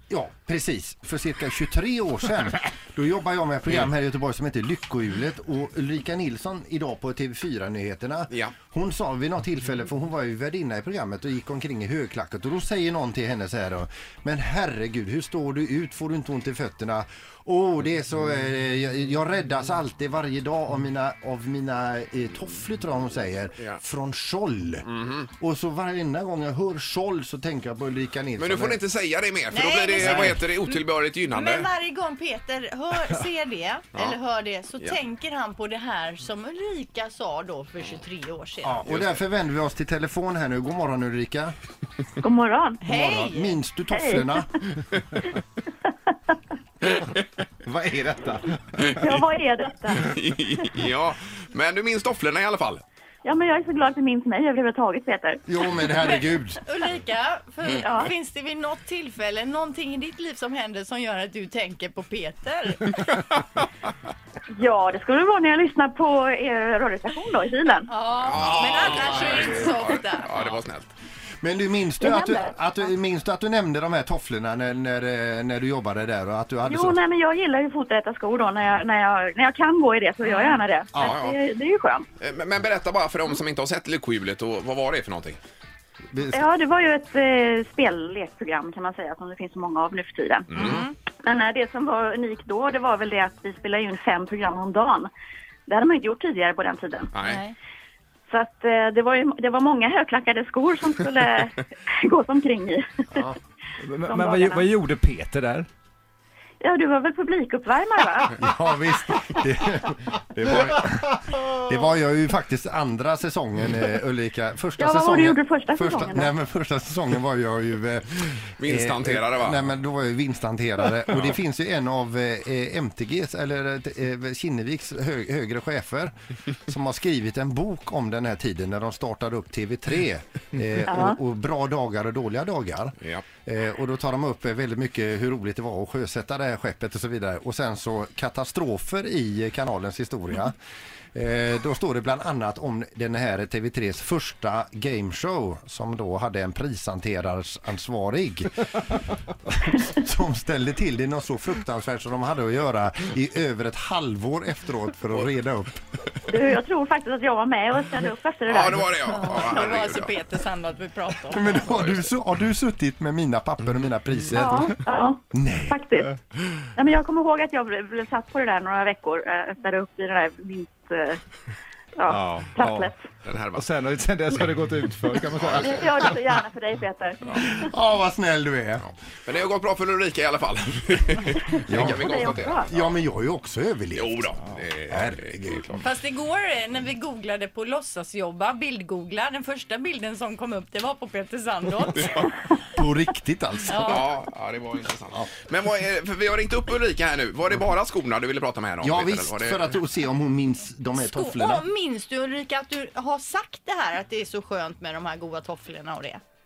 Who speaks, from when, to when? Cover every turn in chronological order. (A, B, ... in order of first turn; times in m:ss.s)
0:00.1-0:28.8 A
0:24.9-0:25.3 B
0:28.4-0:31.7 B
0:29.5-0:38.8 C
0:30.0-0:30.4 A
0:38.6-0:41.5 A
0:38.9-0:39.2 B
0:42.2-0:42.8 D
0:42.8-0:43.6 C
0:42.9-0:44.5 A
0:43.9-0:44.5 D
0:47.6-0:48.5 A
0:48.8-0:50.4 D
0:50.0-0:52.8 B
0:53.2-0:55.4 D
0:55.5-0:56.6 A
0:55.9-1:03.1 C
0:57.8-0:58.1 D
1:04.6-1:07.9 D
1:07.9-1:10.3 C
1:08.2-1:10.9 B
1:11.4-1:17.0 A
1:12.0-1:12.5 D
1:16.7-1:22.1 D
1:21.0-1:21.4 B
1:22.2-1:25.4 B
1:26.1-1:26.5 A
1:26.3-1:35.1 D
1:30.5-1:30.9 C
1:30.6-1:30.8 B
1:35.7-1:37.1 D
1:37.1-1:37.4 B
1:37.2-1:37.6 C
1:38.3-1:43.3 D
1:43.8-1:45.7 E
1:44.1-1:44.6 D
1:46.6-1:48.4 D
1:48.4-2:06.1 A
1:54.8-1:56.3 D
1:58.6-1:59.6 B
2:06.7-2:20.6 A
2:10.9-2:11.2 D
2:21.2-2:28.7 A
2:29.5-2:35.8 A
2:36.3-2:39.5 D
2:38.5-2:40.1 B
2:39.1-2:41.7 C
2:41.3-2:44.7 A
2:41.7-2:42.1 B
2:44.3-2:46.2 D
2:45.3-2:45.8 A
2:46.8-2:51.2 D
2:52.0-2:53.0 D
2:52.1-2:52.9 E
2:53.2-2:53.7 B
2:53.5-2:56.1 E
2:55.3-2:55.8 B
2:55.6-2:57.7 D
2:57.4-2:58.9 A
2:58.8-3:02.9 B
3:01.7-3:04.4 A
3:01.7-3:02.7 D
3:04.0-3:05.8 B
3:04.9-3:05.8 A
3:05.8-3:12.3 C
3:12.7-3:14.0 A
3:13.7-3:14.1 C
3:13.8-3:19.7 B
3:18.8-3:21.6 A
3:21.0-3:26.2 C